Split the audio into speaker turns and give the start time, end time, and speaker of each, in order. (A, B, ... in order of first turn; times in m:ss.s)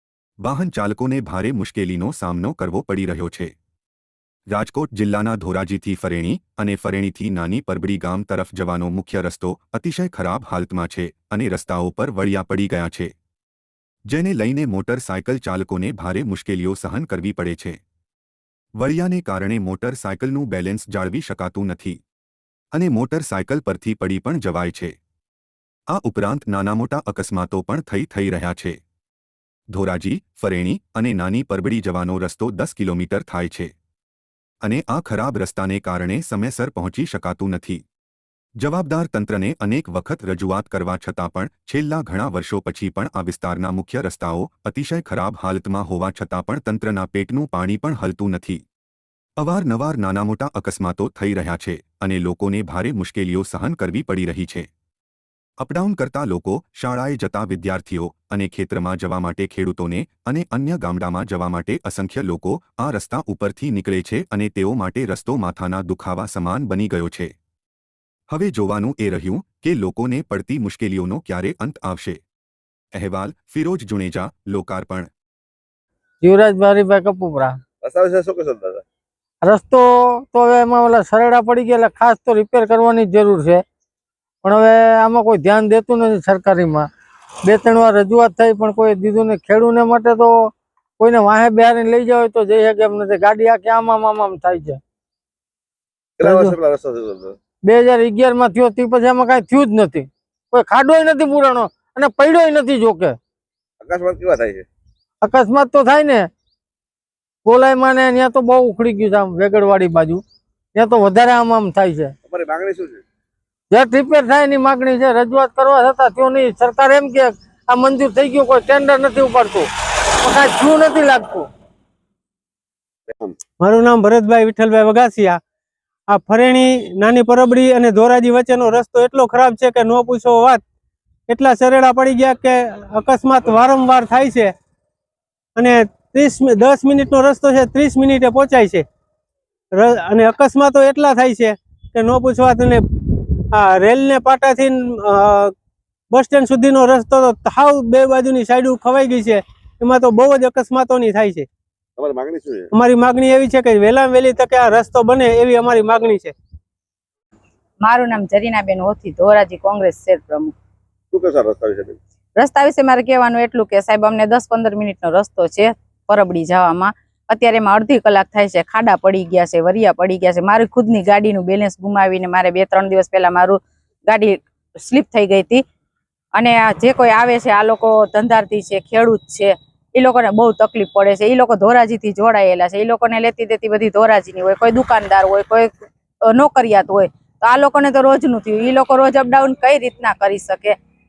0:00.4-0:03.5 A
0:04.5-0:13.1 A
0:14.1-0:17.8 A
0:18.8-0:22.0 A
0:22.7-0:24.9 A
0:25.9-0:28.8 A
0:29.7-0:33.7 A
0:34.6-0:37.8 A
0:38.6-0:48.6 A
0:49.4-0:54.7 A
0:55.6-1:07.3 A
1:08.3-1:12.2 A
1:12.9-1:15.1 A
1:16.2-1:17.6 B
1:17.8-1:18.8 C
1:19.4-1:23.6 B
1:24.4-1:26.9 B
1:27.4-1:30.5 B
1:31.0-1:34.8 B
1:36.2-1:37.4 C
1:36.2-1:36.6 B
1:37.7-1:43.2 B
1:43.8-1:44.7 C
1:45.2-1:46.3 B
1:47.4-1:50.2 B
1:50.8-1:52.1 B
1:52.2-1:53.0 C
1:53.7-1:59.6 B
2:00.2-2:01.4 B
2:03.1-2:03.4 C
2:03.6-2:05.4 D
2:06.1-2:10.6 D
2:11.3-2:14.5 D
2:15.6-2:18.8 D
2:19.7-2:25.5 D
2:26.1-2:31.5 D
2:32.0-2:32.7 C
2:32.7-2:36.3 D
2:37.8-2:40.5 E
2:41.1-2:42.0 C
2:42.4-2:55.6 E
2:56.3-3:05.7 E
3:06.3-3:10.7 E